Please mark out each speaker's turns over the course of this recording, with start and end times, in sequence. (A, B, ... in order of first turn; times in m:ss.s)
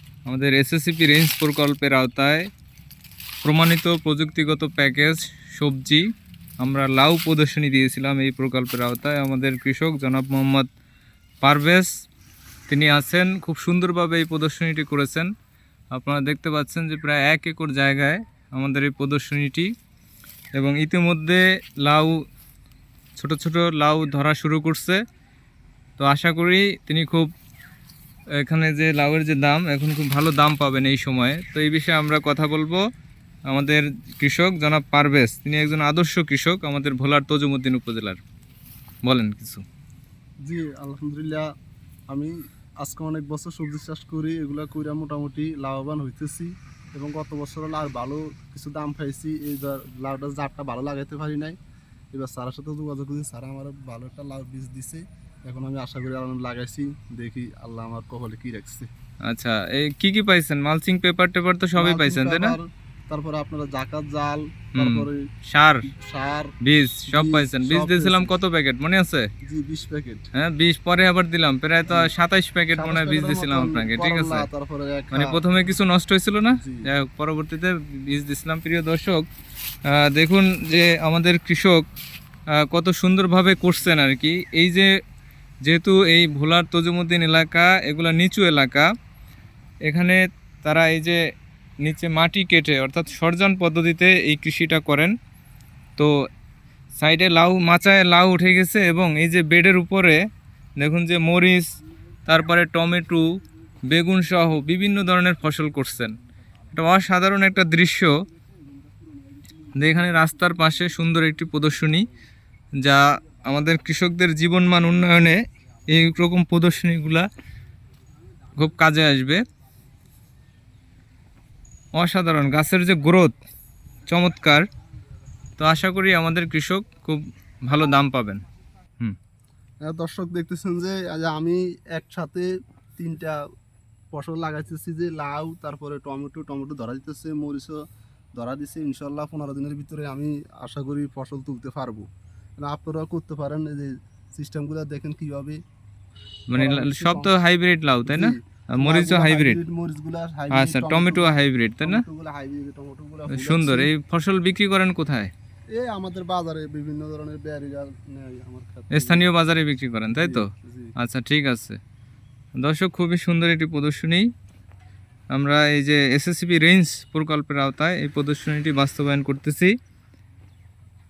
0:00.3-0:02.5 A
0:03.4-0:06.0 A
0:06.6-0:10.7 A
0:11.4-0:11.9 A
0:12.7-0:15.3 A
0:15.9-0:19.7 A
0:20.6-0:22.2 A
0:23.2-0:25.0 A
0:26.0-0:27.3 A
0:28.4-0:32.8 A
0:33.5-0:38.2 A
0:39.0-0:39.6 A
0:40.4-0:41.4 B
0:42.1-0:51.6 B
0:52.1-0:58.9 B
0:59.3-1:02.6 A
1:01.8-1:05.2 B
1:04.8-1:05.9 A
1:05.8-1:06.5 B
1:06.6-1:09.3 A
1:07.1-1:08.3 B
1:09.4-1:10.3 B
1:10.3-1:14.4 A
1:12.8-1:15.4 B
1:15.1-1:19.2 A
1:16.6-1:16.8 B
1:19.9-1:21.8 A
1:22.6-1:24.9 A
1:25.6-1:28.9 A
1:29.9-1:31.2 A
1:31.8-1:35.1 A
1:37.0-1:40.2 A
1:40.8-1:41.7 A
1:42.3-1:43.3 A
1:43.9-1:46.1 A
1:46.7-1:48.1 A
1:49.8-1:52.1 A
1:52.8-1:57.3 A
1:58.6-1:59.4 A
2:02.0-2:03.3 A
2:04.1-2:04.6 A
2:05.6-2:08.4 A
2:09.8-2:13.4 B
2:14.1-2:17.8 B
2:18.3-2:22.1 B
2:22.6-2:25.6 B
2:26.5-2:29.6 A
2:26.6-2:27.3 B
2:28.1-2:33.9 B
2:30.5-2:32.0 A
2:33.3-2:35.3 A
2:35.7-2:39.2 B
2:38.9-2:41.8 A
2:40.2-2:40.9 B
2:42.6-2:44.3 A
2:45.3-2:49.8 A